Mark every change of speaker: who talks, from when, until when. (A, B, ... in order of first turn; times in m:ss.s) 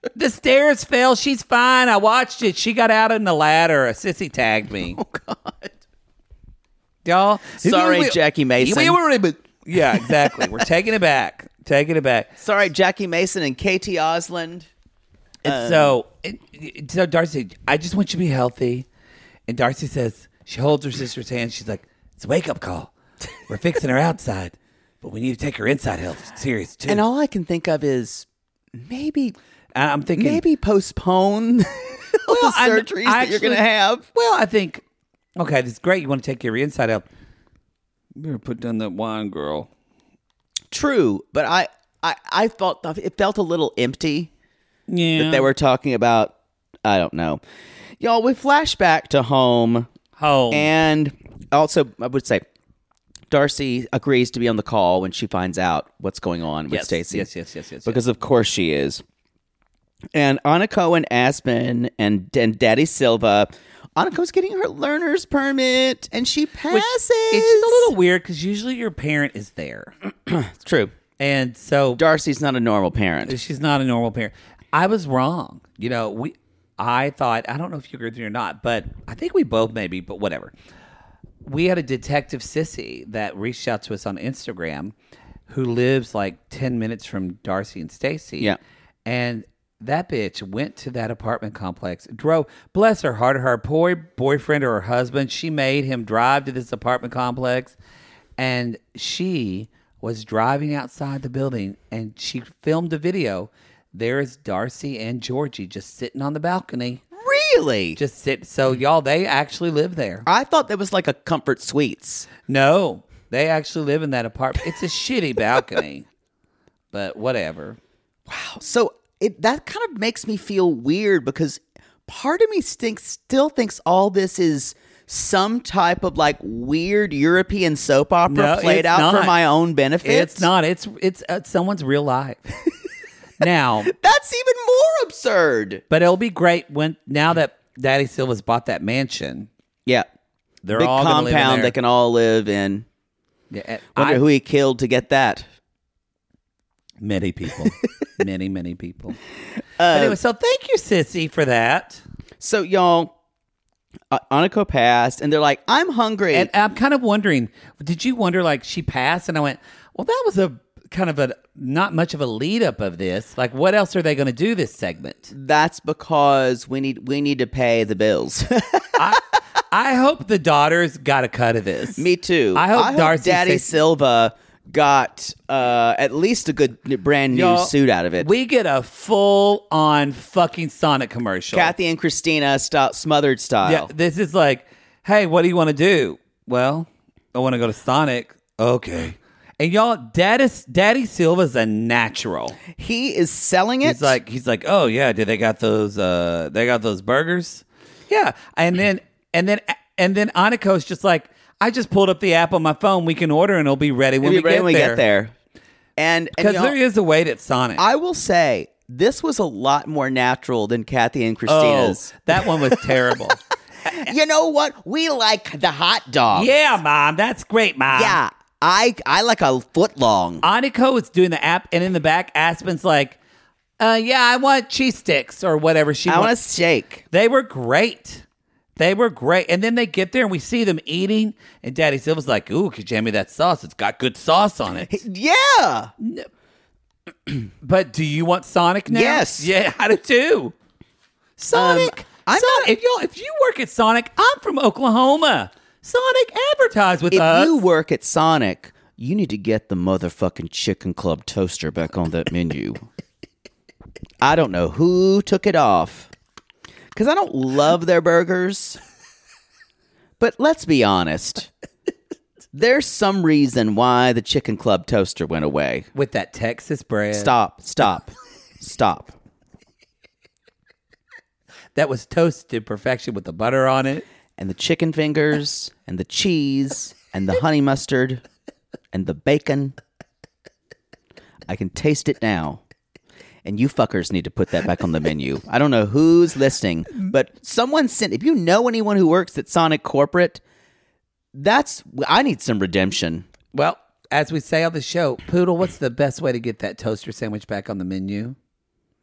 0:00.1-0:05.0 A
0:04.9-0:05.8 B
0:07.0-0:12.3 A
0:07.6-0:09.0 B
0:10.2-0:10.5 B
0:12.4-0:14.7 B
0:15.4-0:18.9 A
0:15.4-0:16.0 B
0:19.5-0:22.9 A
0:23.5-0:27.0 A
0:26.9-0:29.4 B
0:29.8-0:30.4 A
0:30.2-0:34.0 B
0:32.2-0:34.8 A
0:35.4-0:37.0 A
0:38.2-0:39.7 A
0:40.7-0:44.3 B
0:44.9-0:45.5 A
0:45.2-0:46.3 B
0:46.8-0:47.4 B
0:48.0-0:49.9 B
0:50.2-0:50.7 A
0:50.5-0:52.4 B
0:53.3-0:57.3 B
0:56.7-0:58.0 A
0:57.9-0:59.0 B
1:00.1-1:07.9 B
1:06.7-1:09.9 A
1:10.3-1:10.9 B
1:11.2-1:12.0 A
1:12.0-1:13.4 B
1:13.3-1:20.5 A
1:21.4-1:24.9 A
1:25.5-1:37.8 A
1:38.4-1:47.0 A
1:47.1-1:48.0 B
1:48.0-1:50.3 A
1:50.3-1:52.3 B
1:52.5-1:56.1 A
1:56.9-1:57.8 A
1:58.3-2:10.5 B
2:08.3-2:09.4 A
2:10.0-2:12.6 A
2:13.4-2:13.9 A
2:13.9-2:15.8 B
2:15.9-2:19.5 A
2:20.6-2:21.7 A
2:20.8-2:22.9 B
2:23.5-2:24.2 A
2:24.0-2:25.5 B
2:27.0-2:29.2 A
2:29.8-2:30.2 B
2:29.9-2:32.0 A
2:32.4-2:33.1 B
2:34.1-2:36.5 B
2:36.3-2:45.3 A
2:45.3-2:49.0 B
2:49.0-2:53.7 A
2:52.0-2:58.3 B
2:57.3-3:01.7 A
3:01.5-3:03.9 B
3:03.6-3:12.6 A
3:12.7-3:14.2 B
3:13.8-3:25.0 A
3:24.2-3:25.3 B
3:26.0-3:26.8 B
3:26.4-3:27.8 A
3:27.8-3:33.1 B
3:31.5-3:33.4 A
3:33.8-3:36.5 B
3:36.3-3:38.2 A
3:37.9-3:40.4 B
3:40.4-3:43.2 A
3:43.8-3:46.3 A
3:46.1-3:47.0 B
3:47.1-3:48.2 A
3:48.8-3:55.0 A
3:54.9-3:55.9 B
3:56.0-3:56.3 A
3:57.6-4:00.6 A
3:58.9-3:59.5 B
4:01.4-4:07.6 A
4:01.5-4:02.7 B
4:07.1-4:12.8 B
4:14.2-4:16.1 B
4:16.9-4:18.8 B
4:20.2-4:21.5 B
4:22.5-4:25.9 B
4:26.0-4:27.4 A
4:27.1-4:29.1 B
4:31.8-4:34.0 A
4:34.4-4:38.2 B
4:38.9-4:39.8 B
4:41.5-4:42.6 B
4:43.4-4:50.4 B
4:51.3-4:53.3 B
4:53.5-4:58.4 A